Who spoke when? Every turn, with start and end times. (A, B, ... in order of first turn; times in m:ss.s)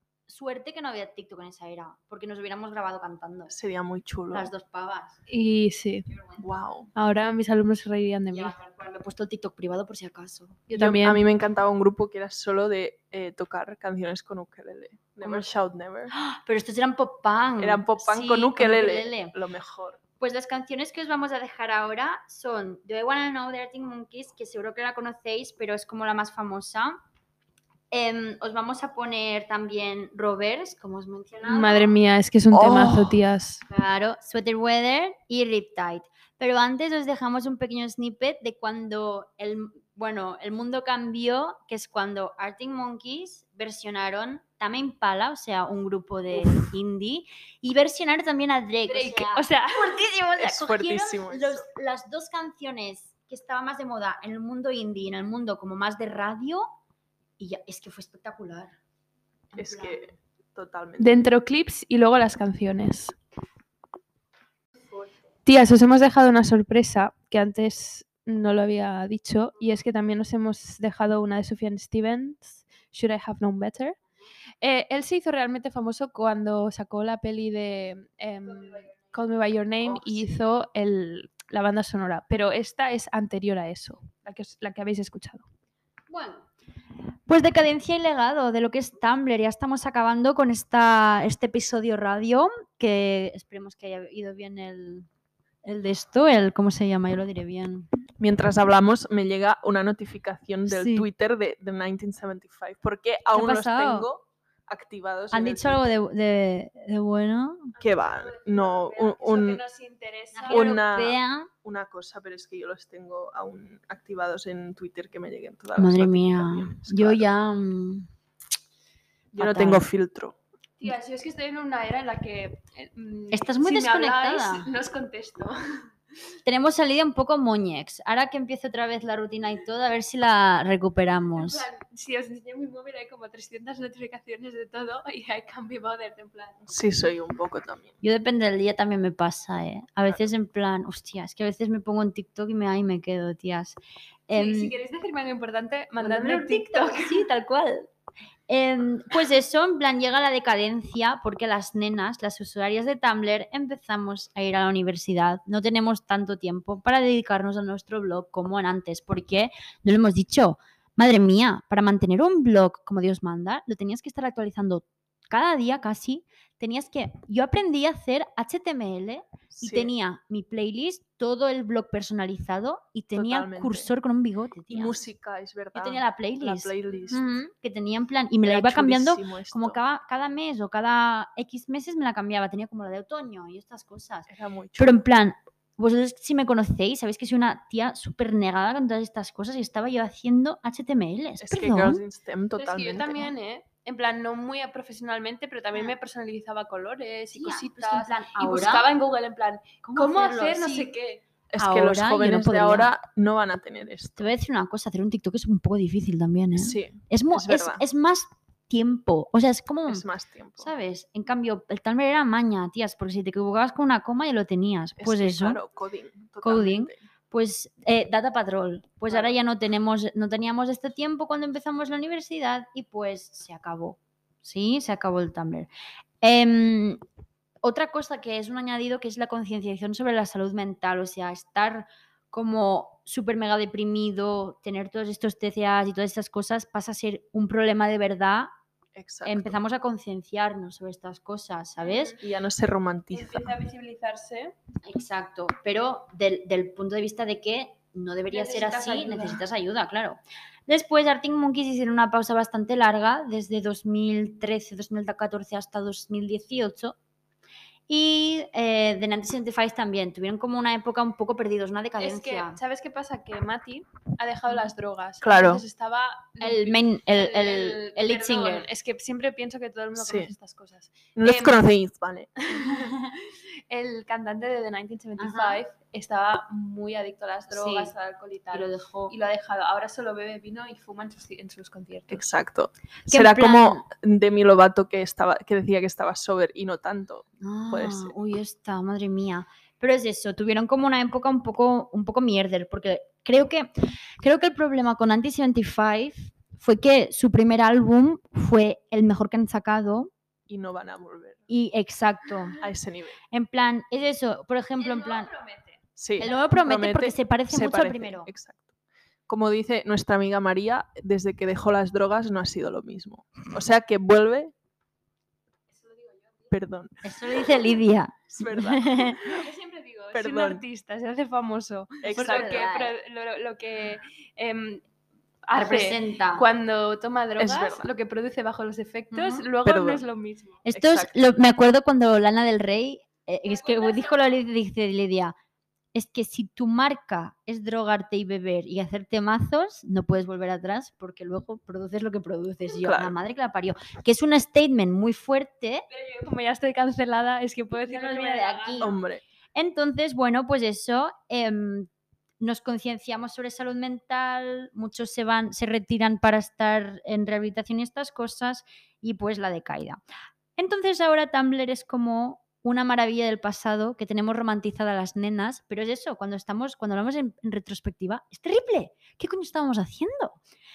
0:00.3-0:03.5 A
0:03.5-0:04.5 B
0:04.3-0:05.2 A
0:05.3-0:06.1 C
0:06.1-0:06.5 A
0:06.4-0:06.9 B
0:07.0-0:08.6 C
0:08.3-0:10.6 A
0:10.7-0:11.2 C
0:10.8-0:16.1 B
0:16.1-0:19.4 A
0:17.6-0:20.0 B
0:20.2-0:27.0 A
0:27.9-0:31.9 A
0:31.4-0:33.6 C
0:32.5-0:33.2 B
0:33.7-0:56.7 A
0:46.4-0:46.7 B
0:48.9-0:50.0 C
0:50.4-0:51.7 B
0:57.4-0:58.8 A
0:59.5-1:00.0 A
0:59.6-1:01.3 B
1:01.0-1:03.2 C
1:05.4-1:14.0 C
1:14.6-1:25.5 C
1:18.4-1:19.4 A
1:19.8-1:20.3 B
1:26.1-1:26.5 A
1:27.3-1:35.1 A
1:35.6-1:37.9 A
1:38.2-1:45.9 B
1:40.7-1:41.1 A
1:43.3-1:44.1 A
1:45.3-1:47.7 A
1:47.8-1:50.8 C
1:47.8-1:49.6 B
1:50.3-1:51.5 A
1:50.5-1:57.3 B
1:55.8-1:58.1 A
1:59.3-2:00.4 B
1:59.3-1:59.9 A
2:00.8-2:05.6 C
2:03.3-2:04.7 A
2:06.4-2:11.7 A
2:11.4-2:16.6 C
2:16.7-2:17.9 B
2:18.0-2:24.7 A
2:24.3-2:27.2 C
2:26.0-2:27.9 A
2:28.5-2:55.0 A
2:49.5-2:49.9 B
2:53.1-2:53.9 B
2:54.7-2:57.2 B
2:55.8-3:12.0 A
2:58.4-2:59.8 B
3:04.3-3:05.0 B
3:11.4-3:13.3 B
3:12.6-3:21.2 C
3:17.3-3:18.9 A
3:19.8-3:20.9 A
3:21.5-3:24.3 B
3:21.6-3:22.9 A
3:24.2-3:30.1 A
3:26.6-3:27.8 B
3:29.9-3:30.7 B
3:30.6-3:35.6 A
3:35.0-3:37.0 B
3:36.4-3:45.7 A
3:46.2-3:47.0 A
3:47.6-3:58.5 A
3:59.0-3:59.6 B
3:59.2-4:02.2 A
4:01.8-4:02.2 C
4:02.2-4:03.6 B
4:03.1-4:04.5 C
4:04.8-4:17.0 A
4:08.3-4:09.4 C
4:17.9-4:22.6 A
4:22.0-4:31.6 C
4:25.2-4:25.6 B
4:26.4-4:28.7 A
4:30.0-4:30.3 B
4:31.2-4:32.3 B
4:32.4-4:33.0 C
4:33.7-4:42.2 C
4:35.2-4:35.6 A
4:37.5-4:37.9 A
4:38.5-4:39.1 A
4:42.1-4:48.1 B
4:43.1-4:43.8 A
4:47.4-5:00.1 A
5:00.5-5:01.4 B
5:01.5-5:02.6 A
5:02.6-5:03.2 B
5:03.3-5:05.3 A
5:04.8-5:06.4 C
5:06.0-5:08.7 B
5:06.2-5:08.3 A
5:09.3-5:14.5 B
5:15.7-5:16.6 C
5:16.5-5:17.0 B
5:17.0-5:19.3 A
5:18.3-5:19.4 B
5:19.3-5:24.8 C
5:20.1-5:20.6 B
5:22.0-5:22.6 B
5:22.1-5:22.9 A
5:25.5-5:30.6 C
5:25.5-5:26.5 A
5:27.4-5:27.9 B
5:29.1-5:29.5 A
5:29.6-5:30.0 B
5:30.6-5:35.4 A
5:30.7-5:31.1 B
5:33.5-5:34.3 C
5:35.9-5:45.9 A
5:42.8-5:43.2 B
5:45.9-5:49.0 C
5:47.8-5:49.0 A
5:48.8-5:49.2 B
5:49.6-6:00.0 A
6:00.6-6:10.4 A